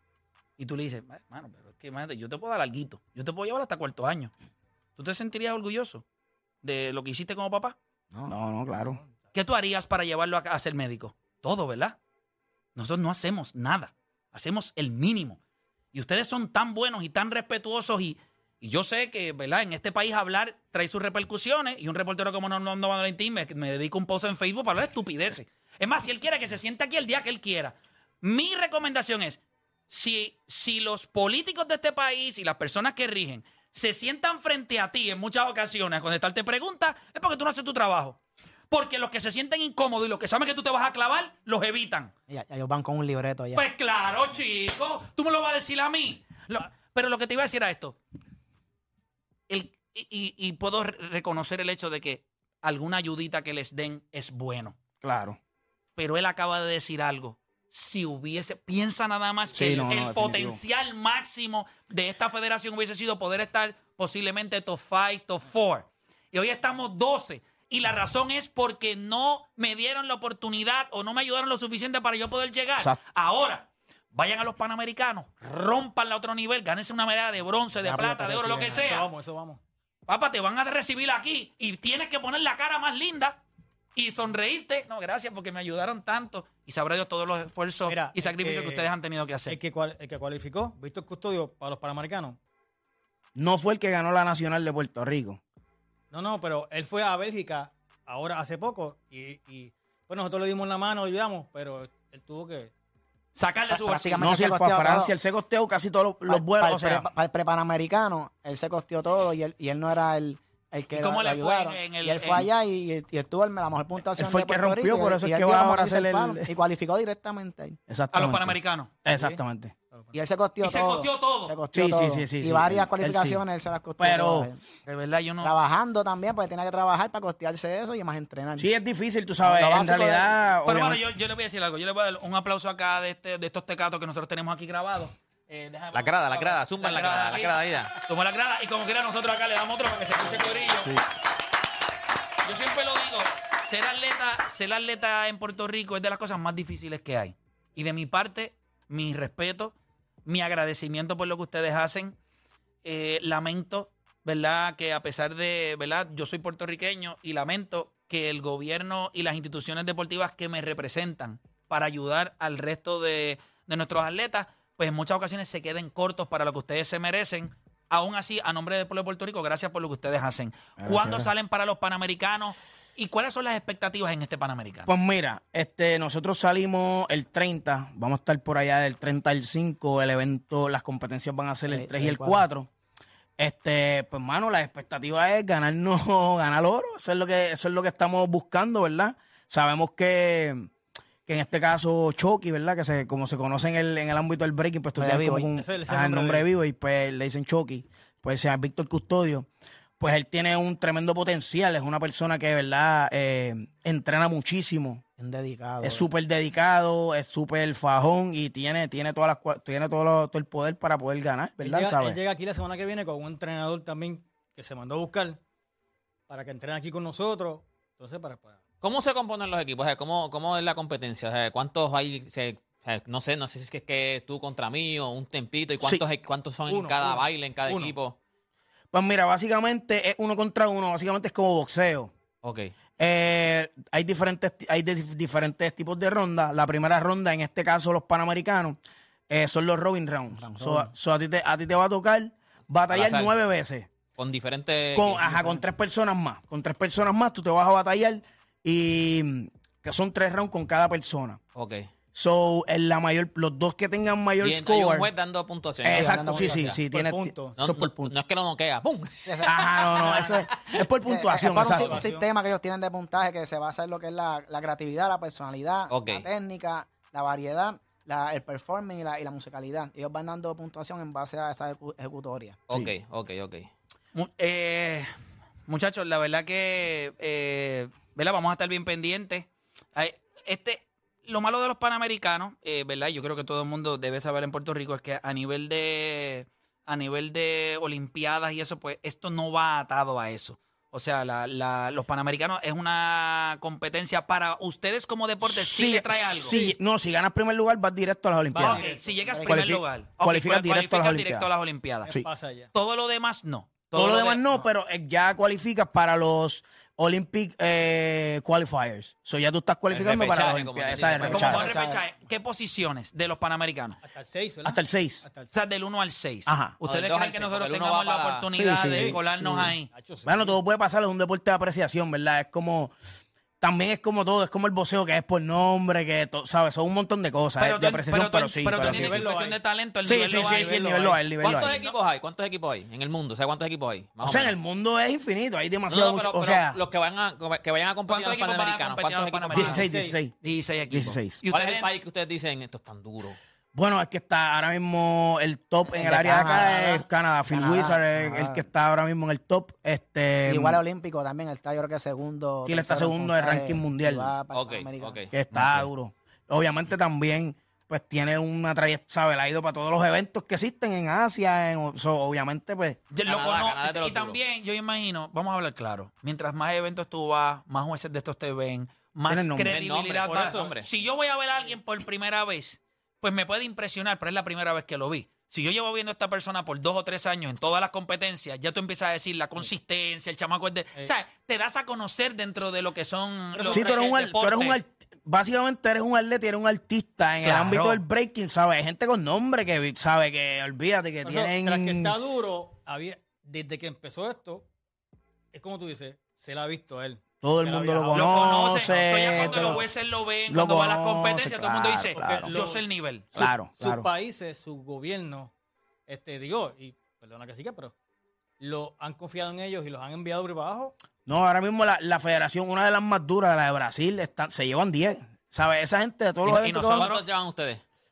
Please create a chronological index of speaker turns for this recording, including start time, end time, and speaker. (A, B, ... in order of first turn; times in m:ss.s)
0:00.6-0:04.3 A
0:05.0-0:06.0 A
0:06.6-0:07.8 A
0:08.3-0:09.0 B
0:08.7-0:09.1 C
0:09.3-0:12.0 A
0:12.8-0:15.4 A
0:15.9-0:38.2 A
0:38.7-0:42.1 A
0:42.3-0:43.7 D
0:43.6-0:48.0 A
0:49.5-0:54.8 A
0:55.0-0:55.4 B
0:56.0-1:19.1 A
0:59.5-1:00.6 B
1:17.8-1:18.8 D
1:18.5-1:19.6 C
1:20.1-1:23.4 A
1:24.0-1:29.6 A
1:27.9-1:28.9 C
1:29.5-1:32.4 C
1:33.4-1:35.4 B
1:36.1-1:42.7 C
1:43.4-1:44.3 A
1:43.7-1:45.1 D
1:44.2-1:47.1 B
1:46.3-1:57.8 D
1:51.0-1:52.5 A
1:54.2-1:56.5 B
1:57.9-1:59.8 B
1:58.1-1:58.9 A
1:59.1-1:59.4 C
2:00.1-2:04.6 D
2:00.6-2:01.5 A
2:01.7-2:03.4 B
2:04.0-2:04.5 B
2:04.9-2:05.6 A
2:05.4-2:08.7 D
2:08.6-2:11.0 B
2:09.4-2:10.3 D
2:10.7-2:21.0 A
2:15.9-2:17.9 E
2:22.4-2:29.8 A
2:30.3-2:32.2 A
2:32.8-2:54.9 A
2:50.8-2:51.3 B
2:54.9-3:02.7 B
3:01.7-3:02.5 D
3:03.4-3:10.7 B
3:11.3-3:19.5 B
3:15.0-3:15.5 D
3:15.5-3:16.5 C
3:20.0-3:25.0 B
3:25.2-3:26.1 D
3:25.8-3:32.2 B
3:31.6-3:35.4 C
3:36.3-3:38.6 C
3:38.8-3:48.2 E
3:45.8-3:46.0 B
3:46.7-3:48.0 C
3:48.9-3:52.1 B
3:52.4-3:52.7 E
3:53.0-3:58.8 B
3:59.3-4:03.9 B
4:00.3-4:00.9 D
4:02.9-4:03.3 E
4:04.2-4:05.6 E
4:04.9-4:11.4 B
4:11.6-4:11.9 E
4:12.1-4:15.1 B
4:14.4-4:16.8 E
4:15.8-4:18.1 B
4:15.9-4:16.7 D
4:16.9-4:17.6 C
4:17.6-4:20.3 E
4:19.3-4:19.6 D
4:19.4-4:22.0 B
4:20.0-4:20.4 C
4:21.0-4:32.7 D
4:21.6-4:22.3 C
4:25.9-4:26.3 E
4:32.7-4:33.7 E
4:34.2-4:35.1 A
4:35.7-4:56.6 A
4:55.4-4:58.9 B
4:56.4-4:56.8 C
4:58.5-4:59.7 C
4:58.6-5:02.1 A
4:59.3-4:59.6 D
4:59.4-5:01.5 B
5:02.1-5:02.7 C
5:02.7-5:04.6 A
5:03.9-5:11.7 B
5:09.9-5:11.8 E
5:11.3-5:14.0 A
5:11.5-5:12.0 D
5:14.0-5:15.5 C
5:14.6-5:15.3 B
5:15.5-5:19.9 A
5:16.5-5:16.8 B
5:16.8-5:18.5 E
5:18.5-5:19.7 B
5:18.8-5:19.3 C
5:19.9-5:20.6 C
5:20.3-5:22.9 B
5:23.6-5:29.2 B
5:27.6-5:32.0 A
5:28.7-5:29.6 C
5:30.0-5:31.7 B
5:30.2-5:31.8 C
5:31.4-5:34.6 E
5:34.2-5:36.8 B
5:35.9-5:39.9 E
5:38.1-5:41.9 A
5:39.5-5:40.3 B
5:39.6-5:40.2 C
5:40.9-5:41.4 B
5:41.5-5:43.4 E
5:43.7-5:50.8 B
5:45.9-5:48.7 D
5:46.2-5:46.6 E
5:50.5-5:55.3 D
5:52.7-5:54.3 B
5:54.5-5:55.9 E
5:55.3-6:03.0 B
6:03.1-6:24.8 A
6:03.2-6:04.4 E
6:09.3-6:09.8 B
6:09.6-6:10.9 E
6:10.3-6:10.8 C
6:23.5-6:24.1 C
6:23.7-6:32.1 B
6:27.4-6:28.0 A
6:31.2-6:34.7 C
6:35.5-6:39.9 C
6:37.4-6:39.9 B
6:38.1-6:43.3 A
6:40.5-6:42.5 B
6:42.2-6:45.5 C
6:43.3-6:44.1 B
6:46.1-6:47.9 C
6:48.6-6:50.9 C
6:51.3-6:57.1 B
6:56.4-6:57.2 A
6:56.9-6:57.8 E